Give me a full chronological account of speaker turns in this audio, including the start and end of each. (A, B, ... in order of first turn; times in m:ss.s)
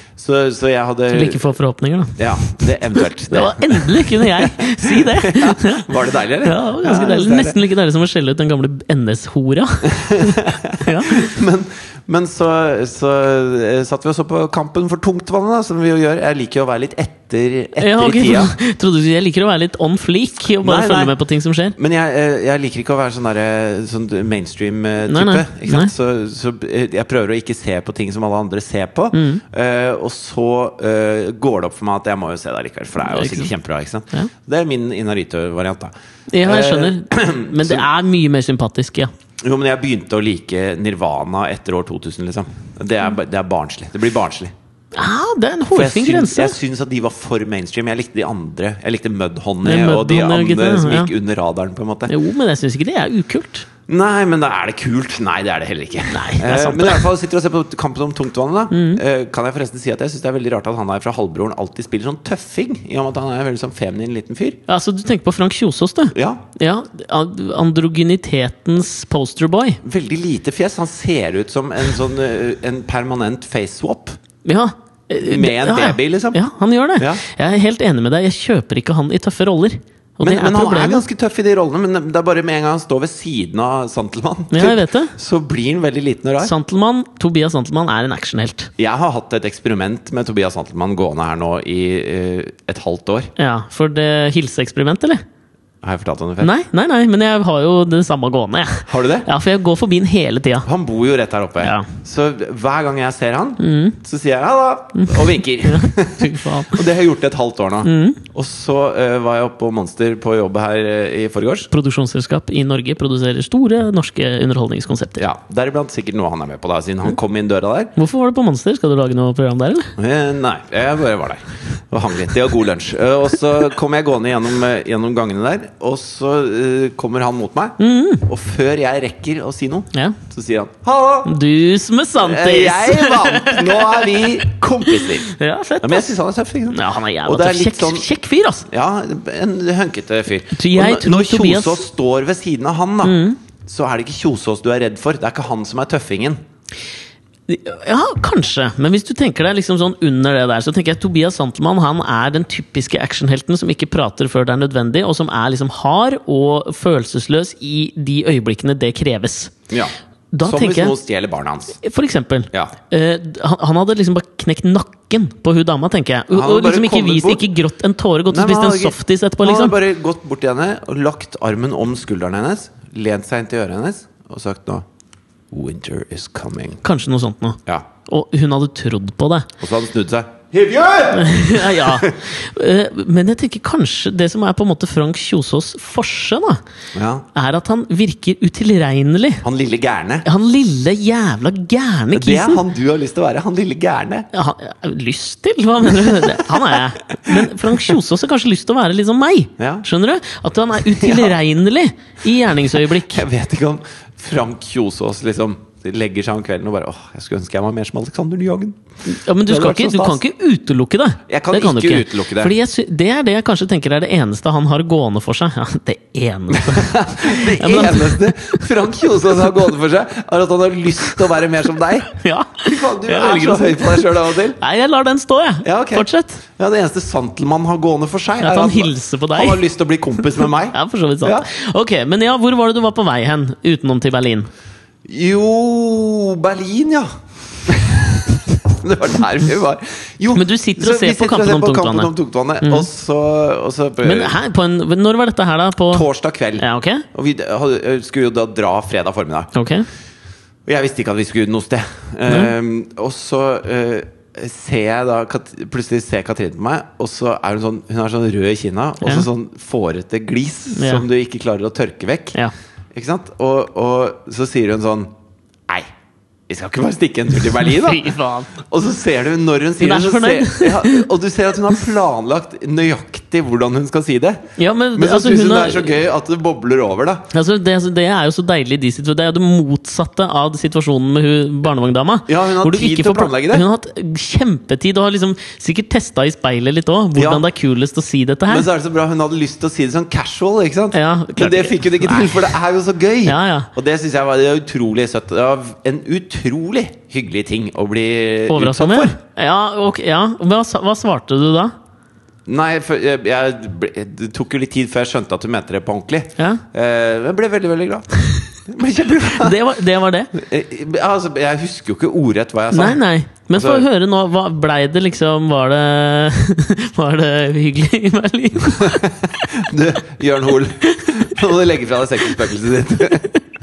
0:00.2-0:01.4 A
0:01.1-0:05.9 B
0:02.2-0:07.6 A
0:06.4-0:11.3 B
0:09.9-0:18.5 A
0:17.8-0:21.8 B
0:20.6-0:21.1 A
0:21.8-0:37.8 A
0:25.1-0:25.9 B
0:29.1-0:29.4 B
0:33.0-0:33.5 B
0:36.3-0:39.1 B
0:39.4-0:44.5 A
0:44.9-0:46.6 B
0:45.7-0:52.1 A
0:49.6-0:51.1 B
0:52.1-0:53.6 B
0:53.9-1:04.6 A
0:56.1-0:57.0 B
0:58.7-0:59.0 B
1:04.7-1:09.8 B
1:06.1-1:06.4 A
1:09.8-1:14.2 A
1:14.4-1:21.0 B
1:15.2-1:16.4 A
1:17.0-1:17.2 A
1:20.2-1:26.5 A
1:24.5-1:25.1 B
1:26.4-1:28.7 B
1:28.8-1:33.3 A
1:33.4-1:35.2 B
1:35.8-1:36.5 A
1:36.4-1:40.7 B
1:38.9-1:39.3 A
1:40.6-1:51.7 A
1:41.6-1:41.9 B
1:43.6-1:44.0 B
1:44.9-1:46.8 B
1:47.8-1:48.2 B
1:51.7-1:55.2 B
1:55.2-1:57.9 A
1:58.0-1:59.9 B
2:00.0-2:11.3 A
2:07.8-2:08.2 B
2:09.9-2:10.2 B
2:11.2-2:16.1 B
2:12.2-2:18.1 A
2:16.7-2:18.7 B
2:18.7-2:26.4 A
2:20.5-2:21.8 B
2:23.0-2:23.4 B
2:27.5-2:39.5 B
2:39.7-2:41.8 A
2:40.3-2:40.9 B
2:41.8-2:49.8 B
2:46.3-2:47.5 A
2:48.3-2:54.8 A
2:55.5-2:56.8 A
2:56.8-2:59.5 B
2:59.6-3:02.1 A
3:01.1-3:06.6 B
3:06.9-3:07.2 A
3:07.3-3:09.4 B
3:09.4-3:10.2 A
3:10.2-3:12.6 B
3:12.1-3:14.3 A
3:14.3-3:23.2 B
3:17.3-3:17.7 A
3:19.6-3:19.8 A
3:20.8-3:21.4 A
3:22.7-3:28.8 A
3:29.0-3:38.6 B
3:29.4-3:30.2 A
3:31.3-3:32.5 A
3:36.5-3:44.6 A
3:42.2-3:46.4 B
3:45.6-3:51.5 A
3:48.4-3:49.6 B
3:50.4-3:54.5 B
3:55.0-3:57.1 A
3:57.6-4:04.4 A
4:00.3-4:02.1 B
4:04.0-4:06.0 B
4:05.9-4:09.5 A
4:06.6-4:07.0 B
4:09.5-4:09.8 B
4:10.6-4:22.4 A
4:12.3-4:12.5 B
4:20.7-4:21.0 B
4:22.9-4:25.1 A
4:26.5-4:37.3 A
4:27.6-4:28.5 B
4:29.8-4:31.1 B
4:34.6-4:36.0 B
4:37.3-4:48.7 B
4:42.3-4:43.6 A
4:47.1-4:47.4 A
4:48.5-4:59.2 A
4:50.9-4:52.5 B
4:53.2-4:53.7 B
4:58.5-5:01.7 B
5:02.4-5:09.6 A
5:06.4-5:06.6 B
5:09.3-5:10.3 B
5:10.3-5:13.0 A
5:12.7-5:19.1 B
5:13.5-5:13.9 A
5:18.8-5:23.3 A